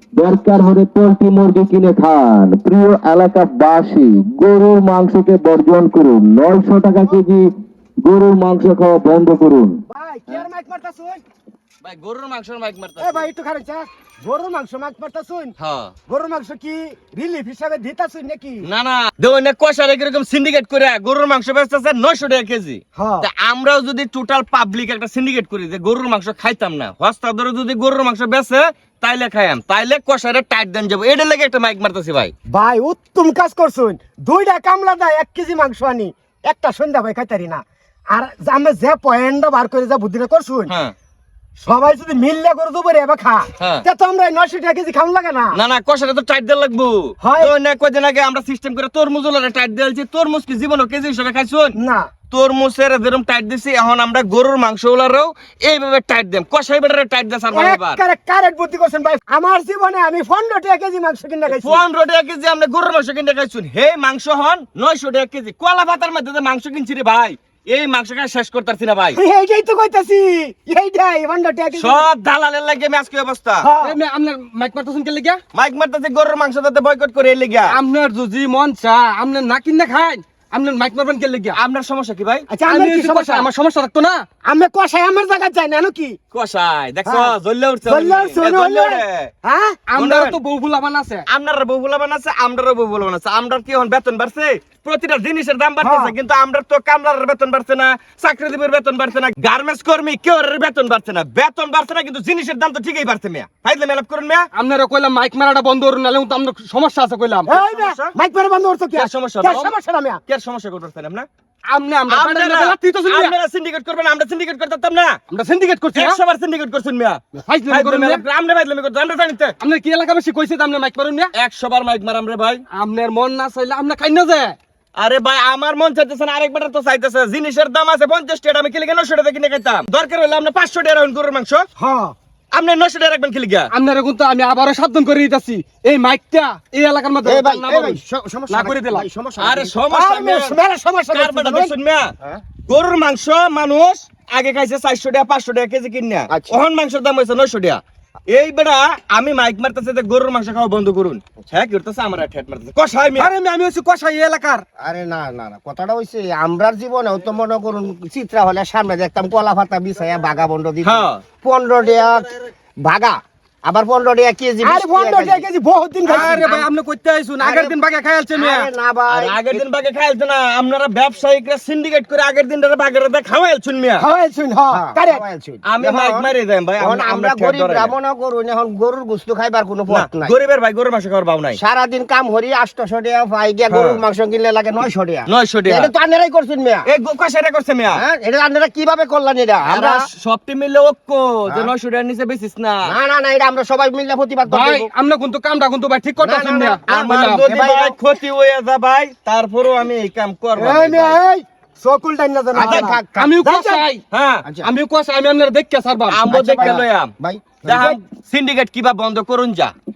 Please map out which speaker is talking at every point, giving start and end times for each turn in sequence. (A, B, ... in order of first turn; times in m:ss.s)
0:00.2-0:07.5 A
0:08.0-0:09.8 A
0:09.9-0:11.2 B
0:11.8-0:13.2 C
0:13.0-0:15.5 B
0:15.6-0:15.9 C
0:16.1-0:18.6 B
0:18.6-0:32.3 C
0:23.0-0:23.3 B
0:32.5-0:40.7 B
0:41.6-0:45.6 B
0:43.6-0:43.8 C
0:45.5-0:51.7 C
0:47.2-0:47.5 B
0:51.8-0:52.1 B
0:52.3-0:58.0 C
0:57.5-1:01.8 B
1:01.5-1:09.2 C
1:09.1-1:12.0 B
1:11.7-1:13.7 C
1:13.6-1:14.0 B
1:13.8-1:15.4 D
1:15.5-1:17.8 C
1:17.7-1:21.6 D
1:21.5-1:22.5 C
1:22.5-1:23.5 B
1:22.6-1:24.2 D
1:24.4-1:26.2 B
1:26.3-1:29.3 C
1:27.0-1:27.3 B
1:27.8-1:29.8 B
1:29.9-1:31.2 D
1:30.0-1:30.4 C
1:31.3-1:44.5 C
1:35.8-1:36.1 B
1:44.5-1:47.6 D
1:47.5-1:50.2 B
1:47.5-1:48.1 C
1:48.9-1:49.7 C
1:50.3-1:51.3 C
1:51.7-1:53.4 D
1:52.1-1:55.2 C
1:55.3-1:56.2 D
1:55.9-1:59.5 C
1:57.3-1:58.2 D
1:59.6-2:01.3 D
2:01.4-2:02.6 C
2:02.7-2:04.6 D
2:05.0-2:11.7 C
2:11.8-2:12.1 B
2:12.5-2:13.7 C
2:13.7-2:19.1 D
2:17.2-2:19.8 E
2:19.4-2:20.6 C
2:19.9-2:21.7 B
2:21.1-2:22.1 C
2:22.7-2:33.3 C
2:26.3-2:26.6 E
2:33.1-2:34.6 D
2:34.8-2:45.4 E
2:40.8-2:41.2 C
2:44.6-2:46.3 B
2:46.1-2:46.5 C
2:46.1-2:46.7 E
2:46.1-2:48.7 D
2:47.4-2:47.8 E
2:48.3-2:49.6 E
2:49.1-2:54.0 C
2:54.0-2:55.2 B
2:54.7-3:00.4 E
2:55.7-2:57.9 C
2:59.9-3:01.6 C
3:01.5-3:06.8 E
3:03.7-3:04.0 C
3:05.3-3:05.9 C
3:06.9-3:08.0 C
3:07.9-3:10.1 E
3:09.7-3:12.9 C
3:12.8-3:14.9 E
3:14.5-3:17.5 D
3:16.2-3:18.0 E
3:16.7-3:21.2 C
3:20.6-3:23.9 B
3:22.5-3:23.4 E
3:23.2-3:24.0 D
3:24.1-3:24.4 C
3:24.4-3:24.7 E
3:24.6-3:26.7 D
3:26.1-3:27.1 C
3:26.3-3:27.8 E
3:27.6-3:29.7 C
3:27.7-3:28.0 B